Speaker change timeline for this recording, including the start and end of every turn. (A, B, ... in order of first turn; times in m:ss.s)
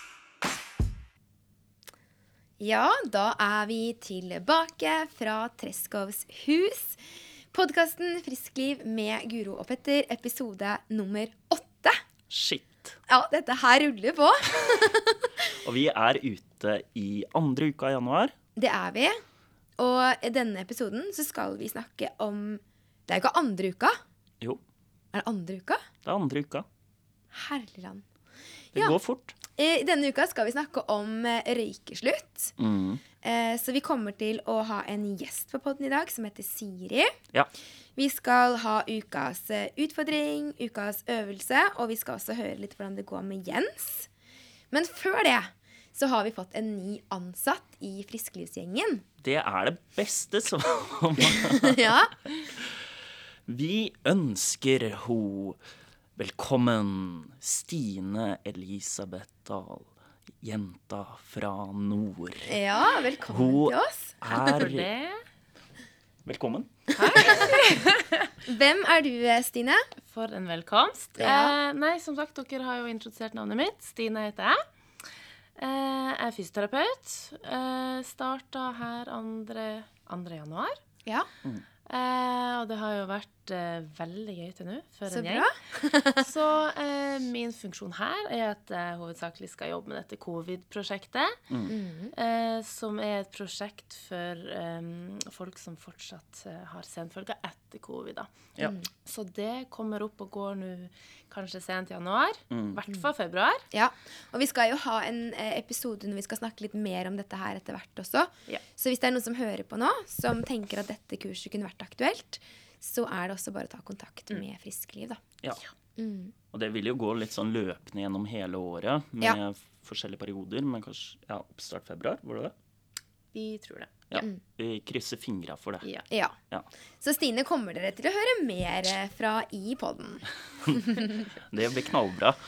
0:02.6-0:07.0 A
0:07.5-0:12.0 A
0:12.3-0:13.0 B
0:13.1-0:15.5 A
0:15.6-0:18.3 B
0:18.6-0:19.2 A
0:19.8-0:24.0 A
0:25.1-0:25.8 A
0:26.0-0:26.7 B
0:27.3-0:28.0 A
0:28.8-0:29.4 B
0:29.6-0:32.5 A
0:32.6-0:33.0 B
0:33.2-0:37.1 A
0:38.0-0:44.1 A
0:44.7-0:49.0 A
0:49.2-0:52.9 B
0:51.3-0:52.3 A
0:53.5-0:55.6 B
0:56.2-0:59.9 B
1:00.4-1:02.5 B
1:02.4-1:04.6 A
1:03.3-1:04.9 B
1:04.4-1:05.2 C
1:06.2-1:07.3 B
1:07.0-1:08.1 C
1:07.0-1:07.9 A
1:08.5-1:09.8 A
1:10.0-1:14.6 C
1:11.2-1:11.6 A
1:15.6-1:20.8 C
1:21.9-1:25.5 C
1:25.1-1:26.3 A
1:26.2-1:31.4 C
1:31.7-1:32.1 A
1:32.1-1:38.4 C
1:38.6-1:38.9 A
1:39.0-1:43.6 C
1:42.5-1:42.8 B
1:43.7-1:55.2 A
1:56.0-1:56.4 A
1:56.5-2:02.5 B
2:03.3-2:03.9 C
2:04.1-2:05.9 B
2:06.1-2:06.4 A
2:07.0-2:11.1 A
2:10.6-2:12.4 B